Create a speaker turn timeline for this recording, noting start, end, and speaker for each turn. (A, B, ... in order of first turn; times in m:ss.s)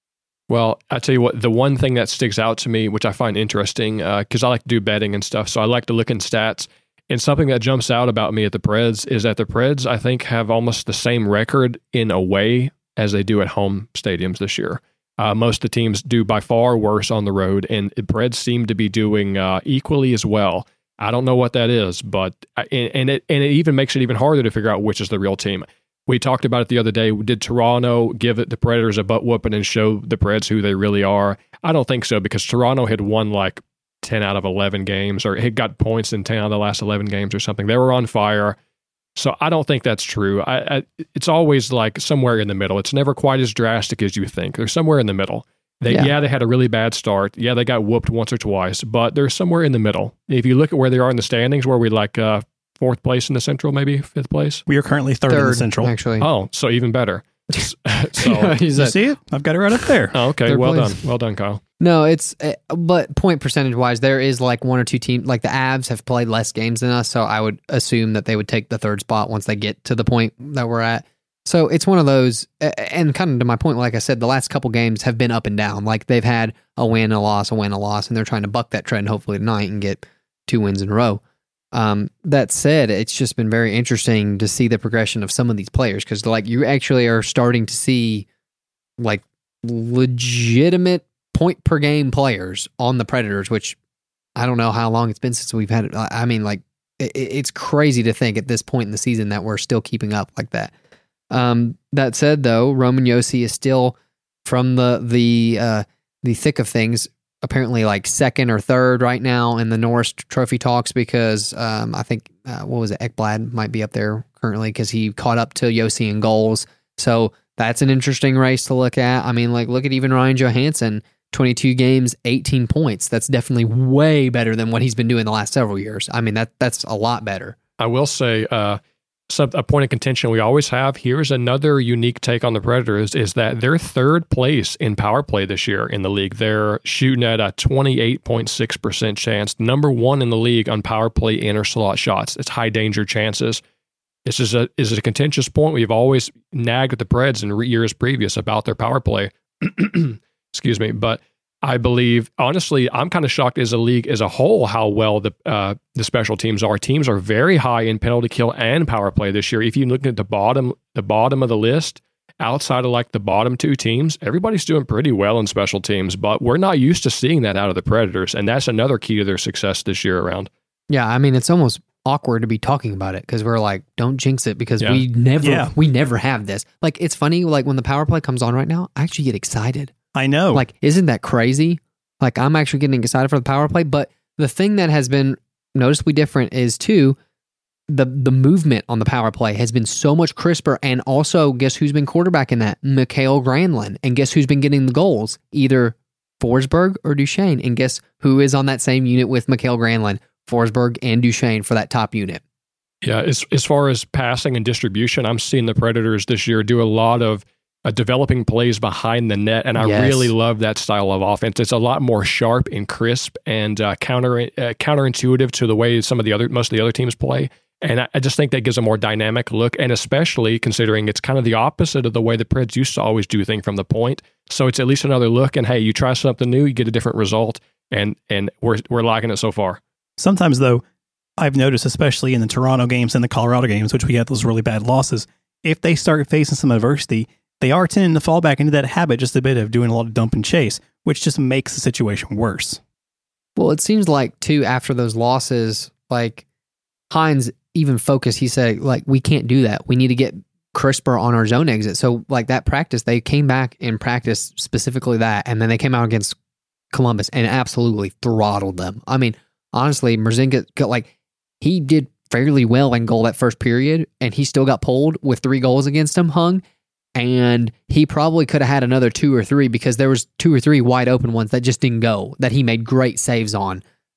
0:00.5-0:38.6 A
0:39.1-0:54.6 A
0:54.7-0:55.9 B
0:55.3-0:56.3 C
0:56.2-0:58.6 A
0:58.2-0:59.0 C
0:58.8-1:00.2 B
1:00.1-1:01.6 A
1:00.4-1:01.0 C
1:01.8-1:21.2 C
1:21.7-1:28.2 C
1:29.0-1:33.8 C
1:34.4-1:40.7 C
1:41.3-2:07.6 C
2:07.8-2:23.6 A
2:24.2-2:50.5 A
2:50.9-2:59.9 C
2:55.4-2:55.7 B
3:00.1-3:00.6 B
3:00.5-3:07.2 C
3:07.9-3:22.4 C
3:23.0-3:49.8 A
3:29.8-3:30.3 C
3:50.2-3:50.8 B
3:51.4-4:02.8 B
4:03.6-4:06.4 C
4:07.1-4:16.3 C
4:16.9-4:21.1 C
4:21.6-4:26.6 C
4:27.1-4:33.8 C